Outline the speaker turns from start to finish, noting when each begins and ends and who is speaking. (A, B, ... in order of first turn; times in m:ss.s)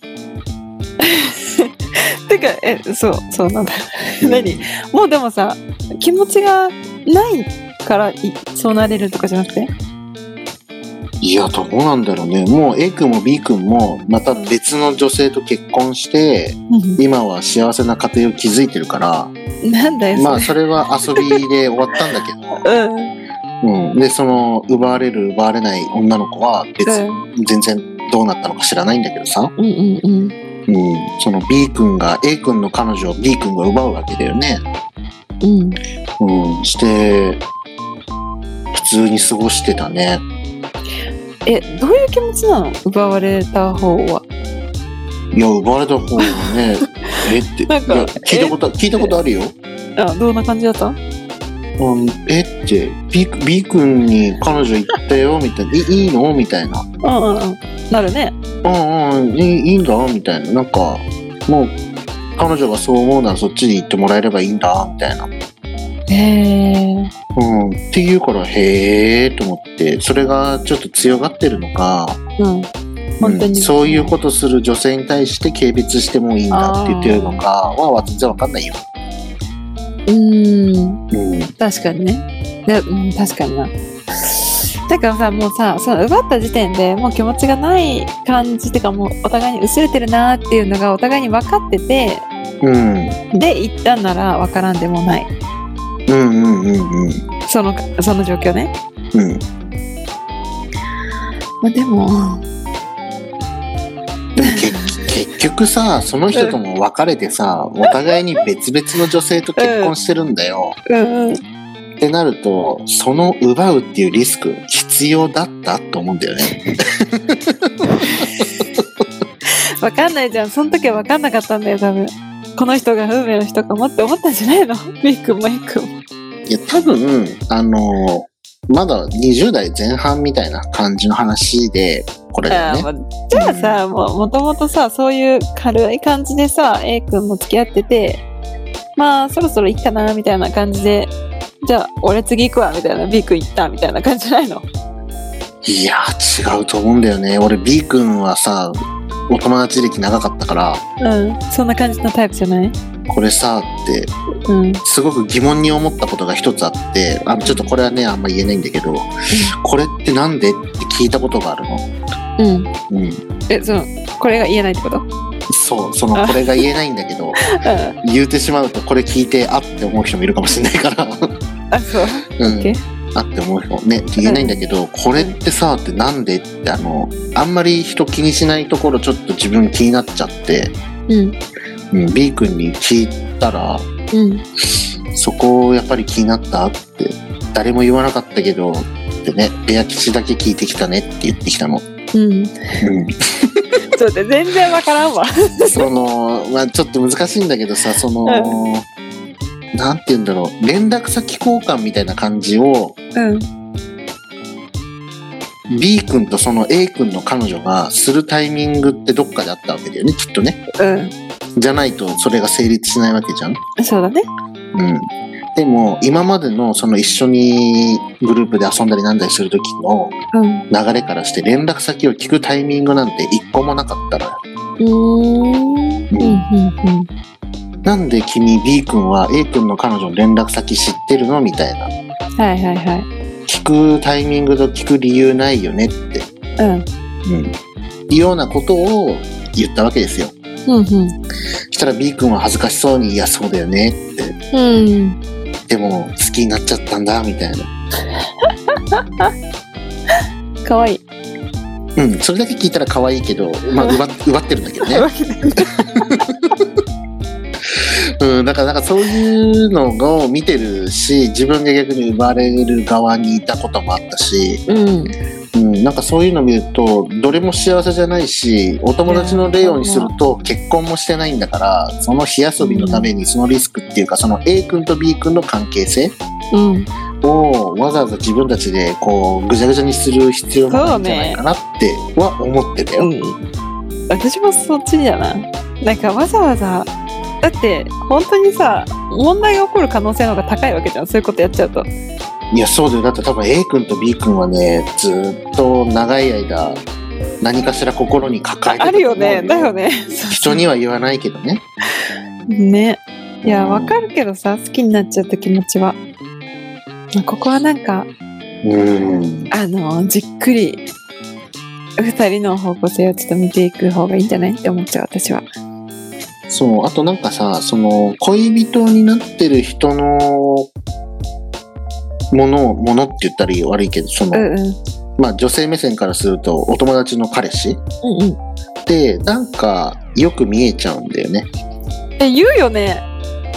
0:01.0-0:09.7 A
0:04.2-0:04.7 B
0:11.2-0:19.3 B
0:16.7-0:17.0 A
0:19.6-0:20.6 A
0:20.1-0:22.6 B
0:21.1-0:21.4 A
0:22.6-0:23.1 A
0:23.6-0:29.5 B
0:26.9-0:27.2 A
0:29.6-0:30.3 A
0:30.7-0:34.6 B
0:35.4-0:35.8 A
0:36.2-0:37.4 B
0:38.7-0:40.2 B
0:41.4-0:44.2 A
0:45.3-0:49.6 B
0:46.2-0:49.2 A
0:50.0-0:51.0 A
0:51.8-0:56.9 B
0:57.0-0:58.3 A
0:58.6-1:01.8 B
1:02.4-1:05.3 B
1:06.1-1:07.1 A
1:07.4-1:12.2 B
1:12.4-1:12.7 A
1:13.2-1:14.2 A
1:13.2-1:18.8 B
1:16.5-1:17.4 A
1:20.1-1:21.0 A
1:21.1-1:21.5 B
1:21.6-1:23.7 A
1:24.2-1:32.2 A
1:32.6-1:33.2 B
1:33.3-1:35.3 A
1:36.1-1:37.2 B
1:37.5-1:38.7 A
1:39.1-1:39.4 B
1:41.6-1:42.4 A
1:44.4-1:50.8 B
1:44.4-1:44.8 A
1:46.3-1:46.6 A
1:49.6-1:49.9 A
1:50.9-1:51.4 A
1:52.0-1:58.3 B
1:58.0-1:58.3 A
1:59.8-2:05.9 A
2:06.5-2:13.8 B
2:12.5-2:18.2 A
2:19.0-2:24.7 A
2:25.6-2:28.8 B
2:29.3-2:30.8 B
2:31.0-2:32.8 A
2:33.1-2:34.1 B
2:34.5-2:34.8 A
2:34.8-2:41.9 B
2:37.4-2:37.7 A
2:42.4-2:42.7 A
2:42.9-2:43.2 B
2:43.5-2:45.1 A
2:45.5-2:47.5 B
2:46.2-2:46.5 A
2:47.5-2:47.9 A
2:48.0-2:51.4 B
2:51.7-2:52.8 A
2:52.4-3:00.8 B
2:54.2-2:54.6 A
3:01.1-3:01.4 A
3:01.9-3:03.9 B
3:04.1-3:04.4 A
3:05.1-3:11.8 B
3:12.1-3:12.8 A
3:12.8-3:13.7 B
3:14.0-3:15.9 A
3:15.7-3:18.9 B
3:18.2-3:18.6 A
3:19.7-3:23.0 B
3:23.2-3:23.5 A
3:25.7-3:30.6 B
3:30.8-3:31.1 A
3:31.6-3:33.6 B
3:33.8-3:34.2 A
3:34.7-3:40.2 B
3:40.3-3:40.6 A
3:40.7-3:44.4 B
3:44.8-3:47.1 A
3:46.1-3:46.4 B
3:47.8-3:51.9 B
3:52.4-3:53.1 A
3:53.5-3:56.3 B
3:56.6-3:56.9 A
3:57.2-3:57.5 B
3:58.1-4:00.3 B
4:00.7-4:01.2 A
4:01.7-4:04.4 B
4:04.5-4:05.2 A
4:05.7-4:07.7 B
4:08.4-4:09.3 A
4:10.6-4:11.0 A
4:12.0-4:15.1 B
4:14.8-4:16.2 A
4:16.1-4:16.4 B
4:17.7-4:24.6 B
4:24.7-4:25.1 A
4:25.5-4:36.2 B
4:29.1-4:30.1 A
4:32.6-4:33.1 A
4:36.5-4:36.9 A
4:37.2-4:43.1 B
4:40.7-4:41.4 A
4:43.0-4:43.4 A
4:44.1-4:46.9 A
4:47.4-4:51.9 A
4:52.5-4:56.8 B
4:57.4-4:59.7 B
4:58.7-5:00.6 A
5:00.3-5:01.6 B
5:02.5-5:06.0 A
5:03.4-5:04.0 B
5:07.2-5:08.1 A
5:08.6-5:09.5 B
5:09.5-5:10.8 A
5:12.0-5:15.5 A
5:16.5-5:20.7 B
5:22.3-5:24.5 B
5:24.3-5:24.8 A
5:25.2-5:27.8 B
5:28.0-5:28.4 A
5:28.9-5:31.5 B
5:32.2-5:33.0 A